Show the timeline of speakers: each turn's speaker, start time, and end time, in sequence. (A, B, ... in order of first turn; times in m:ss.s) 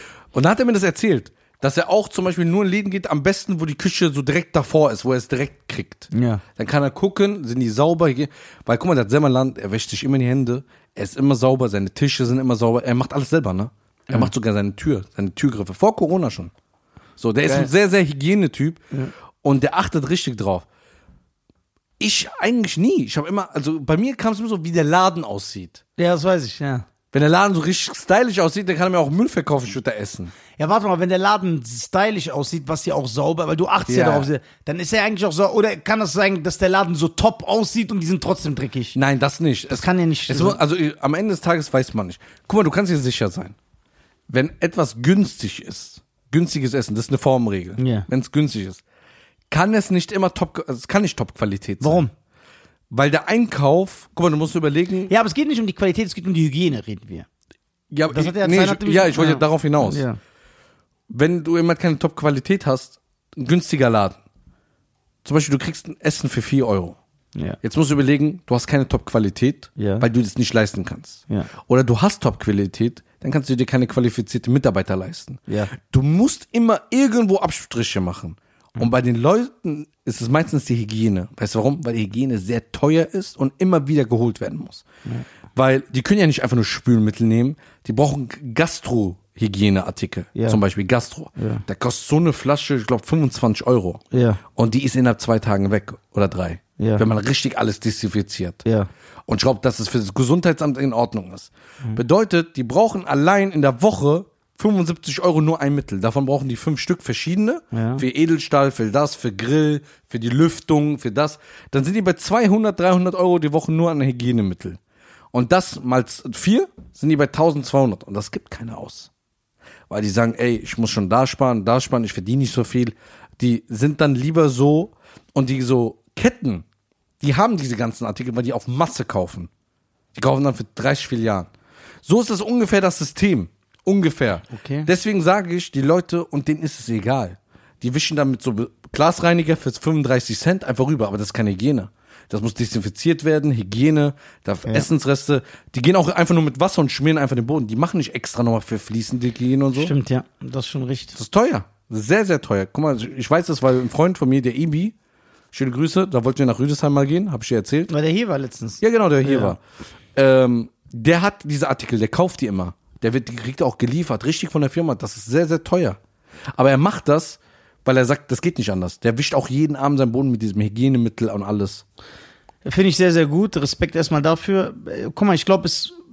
0:00.3-0:16.5 A
0:06.1-0:06.4 B
0:17.2-0:18.8 A
0:19.4-0:20.6 A
0:22.0-0:25.8 A
0:26.0-0:26.8 B
0:27.1-0:30.3 A
0:30.6-0:39.0 B
0:33.9-0:34.3 A
0:38.9-0:43.6 A
0:39.7-0:40.6 B
0:44.3-0:48.8 A
0:47.8-0:48.1 B
0:49.5-0:52.0 A
0:51.8-0:52.1 B
0:52.9-0:55.1 A
0:55.1-0:57.3 B
0:57.9-1:00.0 A
0:58.1-1:00.2 B
1:01.1-1:04.2 A
1:05.2-1:07.0 A
1:07.6-1:24.8 A
1:09.8-1:10.0 B
1:15.5-1:15.7 B
1:25.5-1:34.0 A
1:30.3-1:30.6 B
1:31.4-1:31.6 B
1:34.1-1:34.4 B
1:34.5-1:38.6 A
1:36.8-1:37.0 B
1:38.6-1:38.9 B
1:39.3-1:54.8 A
1:47.7-1:48.0 B
1:55.3-1:59.1 A
1:59.9-2:06.6 A
2:07.2-2:09.5 A
2:10.1-2:11.5 A
2:12.0-2:29.9 A
2:14.5-2:14.9 B
2:29.7-2:31.2 B
2:31.1-2:34.9 A
2:35.5-2:37.9 A
2:37.9-2:39.5 B
2:38.8-2:39.6 A
2:40.1-2:46.0 A
2:46.5-2:51.8 A
2:52.6-2:55.9 B